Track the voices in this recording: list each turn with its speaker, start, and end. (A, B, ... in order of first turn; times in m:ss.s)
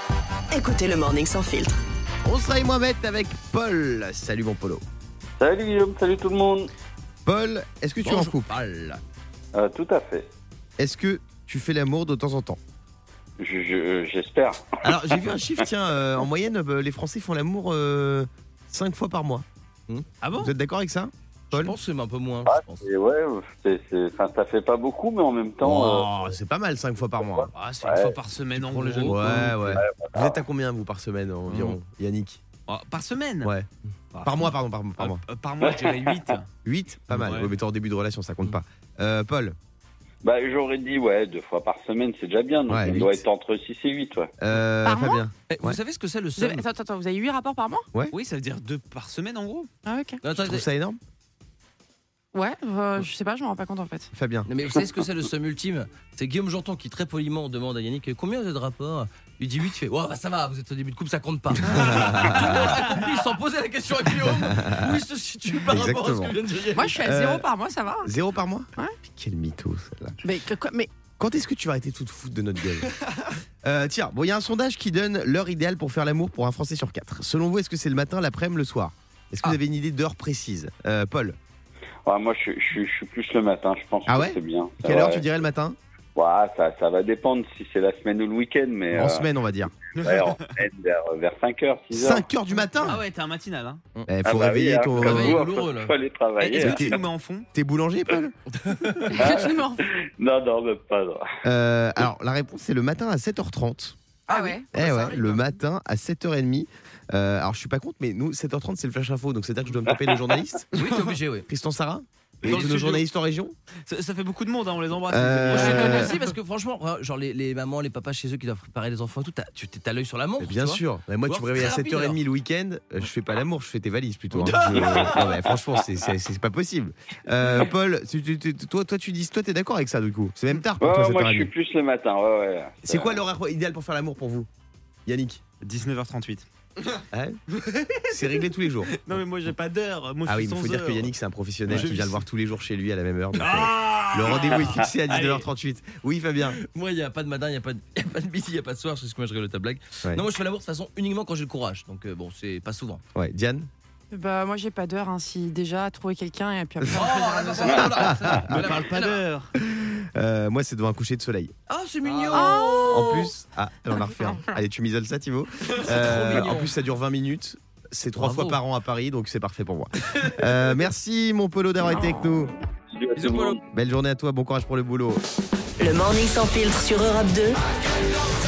0:00.5-0:01.7 A
0:02.2-0:04.8 B
0:05.4-0:06.7 C
0:07.2-0:08.5 B
0:08.0-0:09.0 D
0:09.5-0:10.3 C
0:10.8-0:12.6 B
0:13.4-0:14.8 C
0:14.8-0:19.4 B
0:20.2-0:20.5 E
0:20.4-0:21.7 B
0:21.5-0:22.8 D
0:22.4-0:26.2 C
0:25.6-0:27.5 B
0:27.2-0:28.2 C
0:27.5-0:29.5 E
0:28.5-0:29.8 D
0:29.0-0:32.4 B
0:29.7-0:30.4 C
0:31.5-0:31.8 D
0:32.7-0:33.5 E
0:33.4-0:33.7 B
0:34.1-0:36.5 E
0:34.2-0:35.2 B
0:35.6-0:36.3 C
0:36.6-0:39.5 B
0:37.1-0:37.5 E
0:40.2-0:44.3 C
0:42.7-0:43.2 B
0:44.4-0:45.8 B
0:44.8-0:45.2 F
0:45.6-0:46.6 E
0:46.4-0:47.8 F
0:48.1-0:49.7 E
0:49.8-0:50.2 F
0:50.2-0:50.6 D
0:50.3-0:51.0 B
0:52.3-0:54.1 F
0:54.1-0:54.5 B
0:54.5-1:07.0 D
1:01.8-1:02.6 B
1:04.3-1:04.9 B
1:05.7-1:06.4 B
1:06.7-1:08.1 F
1:07.0-1:07.5 B
1:08.0-1:10.2 B
1:10.2-1:10.9 F
1:11.2-1:12.9 B
1:13.6-1:21.4 B
1:22.0-1:25.2 C
1:24.1-1:25.8 B
1:26.1-1:29.2 C
1:28.9-1:29.7 B
1:30.0-1:30.6 E
1:30.0-1:32.2 C
1:31.9-1:33.0 B
1:32.8-1:33.8 E
1:34.1-1:35.4 B
1:34.2-1:36.9 C
1:35.0-1:36.0 D
1:36.4-1:37.5 E
1:36.6-1:37.0 B
1:37.5-1:38.3 B
1:38.6-1:39.1 D
1:39.0-1:39.8 F
1:39.1-1:41.2 C
1:41.4-1:44.0 B
1:44.3-1:45.2 F
1:44.3-1:44.6 D
1:44.7-1:50.7 B
1:50.7-1:51.4 D
1:51.5-1:53.5 B
1:52.4-1:53.0 E
1:53.9-1:56.2 E
1:55.0-1:56.1 B
1:55.5-2:02.2 D
2:00.4-2:11.5 B
2:04.3-2:05.3 D
2:04.7-2:05.3 C
2:10.8-2:13.2 C
2:12.8-2:14.5 B
2:15.0-2:15.4 B
2:15.6-2:18.1 E
2:17.1-2:17.4 B
2:18.1-2:19.1 B
2:18.8-2:21.1 E
2:20.2-2:26.6 B
2:21.7-2:22.2 E
2:23.4-2:24.6 D
2:23.6-2:25.4 E
2:26.4-2:33.0 D
2:33.1-2:33.7 B
2:34.1-2:37.1 F
2:36.9-2:39.2 D
2:37.0-2:39.5 E
2:38.0-2:38.7 B
2:39.6-2:41.5 B
2:41.7-2:43.3 D
2:42.3-2:43.2 F
2:42.9-2:52.5 B
2:45.7-2:46.8 D
2:48.2-2:48.6 D
2:51.9-2:52.3 F
2:52.9-2:53.6 C
2:53.2-2:53.6 D
2:53.7-2:55.2 B
2:55.8-2:57.6 A